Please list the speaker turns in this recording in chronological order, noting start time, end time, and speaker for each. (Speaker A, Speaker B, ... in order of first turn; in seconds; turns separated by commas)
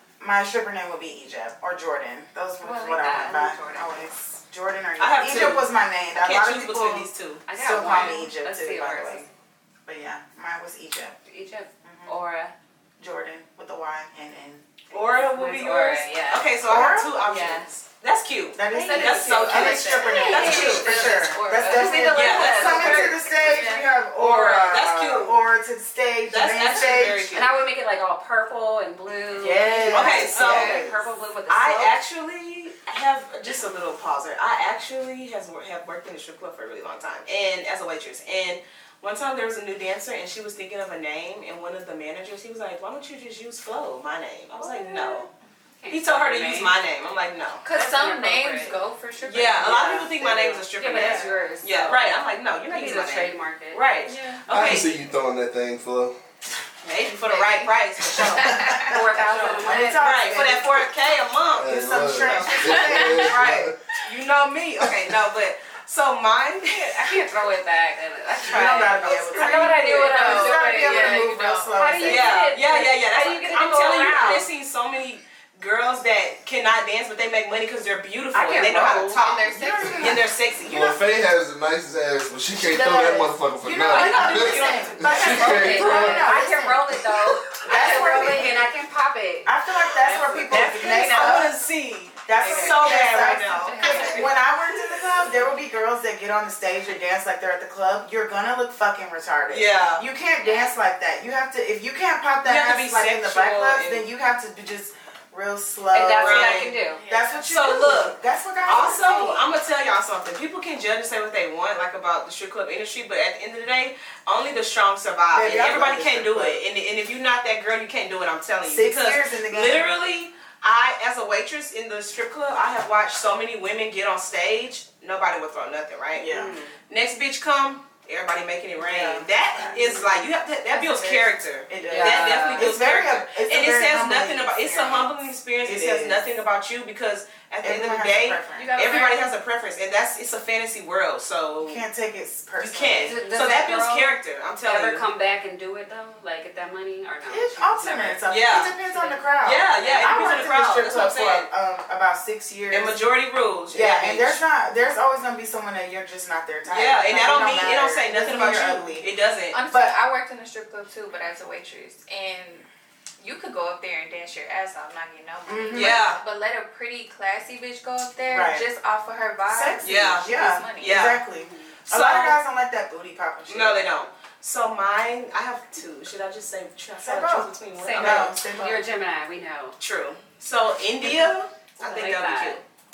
Speaker A: 0.2-9.3, Speaker B: 2.6-4.1, Speaker C: 5.0-8.1, Speaker B: 7.5-9.3, Speaker A: 9.8-11.2, Speaker B: 11.3-12.5, Speaker A: 11.8-12.1, Speaker A: 13.0-15.0, Speaker C: 14.9-21.2, Speaker B: 15.2-16.5, Speaker A: 16.6-17.2, Speaker B: 17.2-17.7, Speaker A: 18.5-27.3, Speaker D: 18.7-22.1, Speaker B: 19.8-23.7, Speaker C: 22.1-23.2, Speaker D: 23.4-23.9, Speaker C: 24.2-25.4, Speaker B: 24.2-24.7, Speaker C: 26.3-27.5, Speaker B: 27.3-32.0, Speaker A: 29.4-31.0, Speaker C: 29.9-30.8, Speaker D: 30.4-30.8, Speaker C: 31.5-45.3, Speaker D: 44.6-45.2, Speaker B: 45.8-46.8, Speaker C: 45.9-47.6, Speaker D: 47.6-51.4, Speaker B: 47.6-48.8, Speaker C: 49.2-54.9, Speaker B: 50.7-52.2, Speaker B: 52.7-53.8, Speaker D: 54.0-54.4, Speaker E: 54.5-56.1, Speaker C: 56.8-67.2, Speaker D: 57.3-57.7, Speaker D: 58.2-59.9, Speaker B: 58.5-60.5, Speaker A: 59.6-60.9, Speaker E: 61.5-63.7, Speaker A: 61.6-63.4, Speaker B: 66.7-74.5, Speaker A: 68.5-72.5, Speaker C: 68.7-69.2, Speaker D: 69.3-71.7, Speaker C: 72.1-81.0, Speaker B: 78.3-79.4, Speaker D: 79.2-80.2, Speaker A: 79.6-80.2, Speaker E: 80.6-86.3, Speaker A: 82.5-88.7, Speaker B: 83.9-89.5, Speaker A: 89.5-91.6, Speaker C: 90.0-94.3, Speaker B: 90.1-91.3, Speaker A: 92.2-109.4, Speaker D: 92.4-94.4, Speaker B: 93.6-94.2, Speaker C: 99.5-100.0, Speaker B: 100.4-100.7, Speaker C: 102.4-104.0, Speaker B: 105.9-107.0, Speaker C: 106.2-106.7, Speaker D: 106.8-107.7, Speaker C: 107.5-126.3, Speaker A: 115.3-116.6, Speaker A: 118.6-119.9, Speaker A: 126.1-126.5, Speaker B: 126.3-126.7, Speaker C: 126.9-141.8, Speaker A: 128.8-129.9, Speaker D: 130.7-131.4, Speaker A: 131.7-136.3, Speaker B: 131.8-132.7, Speaker A: 137.6-138.7, Speaker D: 138.5-139.3, Speaker A: 141.6-143.2, Speaker C: 142.6-145.1, Speaker B: 143.0-148.2, Speaker A: 147.3-153.0, Speaker C: 148.3-148.7, Speaker B: 148.8-150.4, Speaker C: 149.4-151.5, Speaker C: 152.7-154.4, Speaker A: 153.7-159.1, Speaker C: 156.7-159.5, Speaker D: 159.5-162.7, Speaker A: 159.7-159.9, Speaker D: 163.2-171.0, Speaker A: 165.5-166.1, Speaker C: 165.7-166.2, Speaker A: 168.2-168.7, Speaker A: 169.4-173.8, Speaker C: 169.8-171.2, Speaker C: 171.9-172.4, Speaker C: 173.5-178.4, Speaker A: 177.0-178.8, Speaker B: 177.7-179.7, Speaker C: 179.8-182.6, Speaker B: 181.8-182.6